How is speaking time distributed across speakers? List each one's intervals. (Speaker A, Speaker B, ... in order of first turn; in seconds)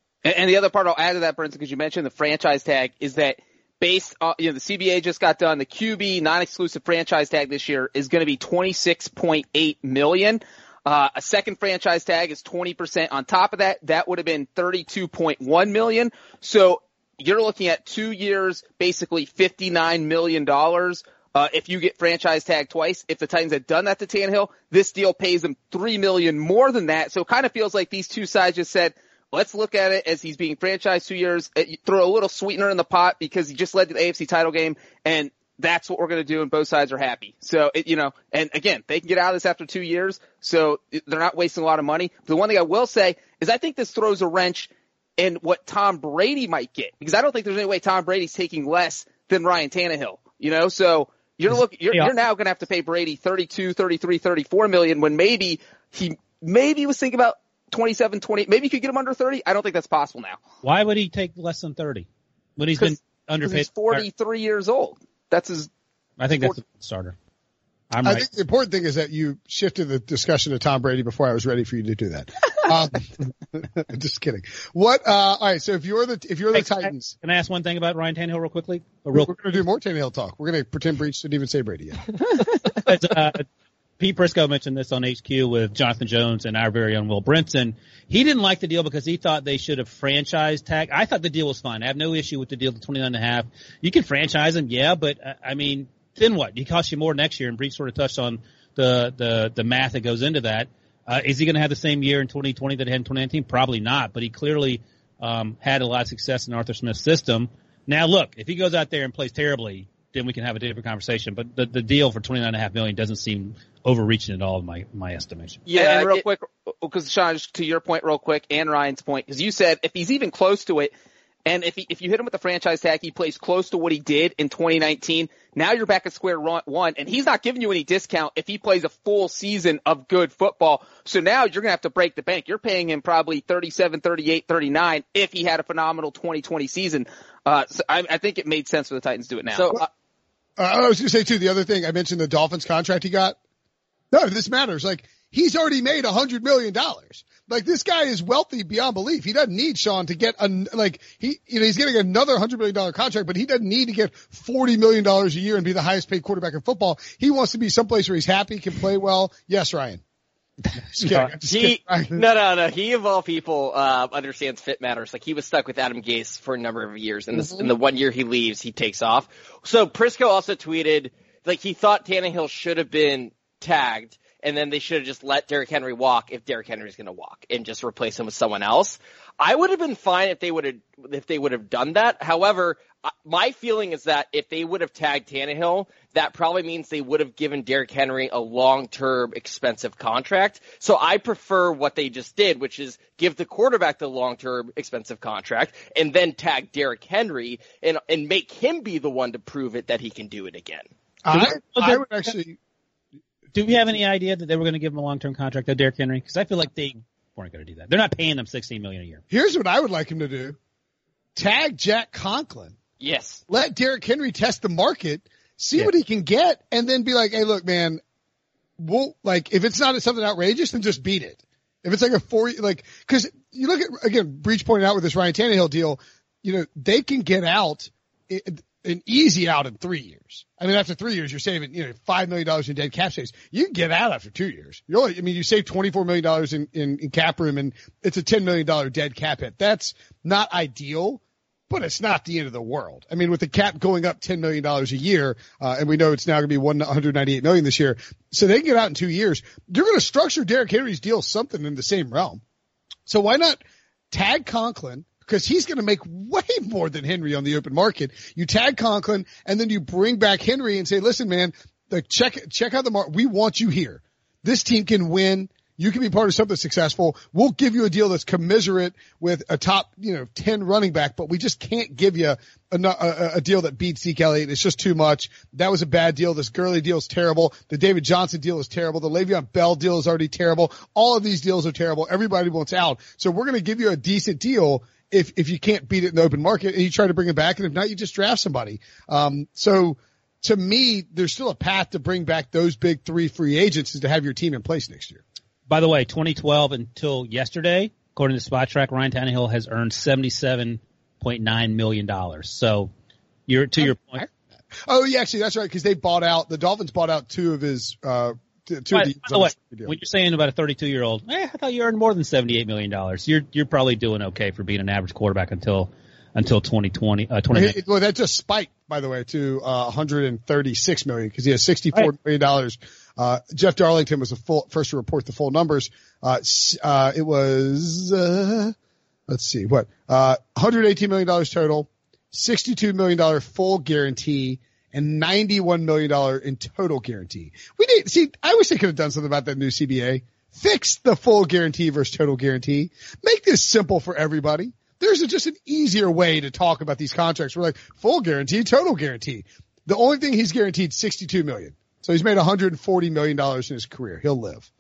Speaker A: 0.2-60.4, 62.8-65.7, 115.7-120.9, 121.5-139.9
Speaker B: 51.5-52.1, 60.6-64.0, 66.2-67.2, 67.9-68.3, 76.5-79.4, 82.6-83.5, 84.0-115.7, 161.0-161.3, 201.3-202.3, 203.5-209.2, 295.7-302.9, 303.5-304.2, 308.9-317.8
Speaker C: 68.0-77.1, 79.1-82.1, 140.6-143.4, 144.1-160.0, 161.0-162.2, 167.3-167.7, 201.2-202.6, 209.3-210.6, 211.3-212.8, 213.5-218.0, 218.8-252.4, 253.1-295.2, 303.8-304.2, 304.9-310.0, 317.5-328.8, 329.3-354.7
Speaker D: 115.7-116.2, 139.5-139.8, 161.4-200.9, 213.0-213.4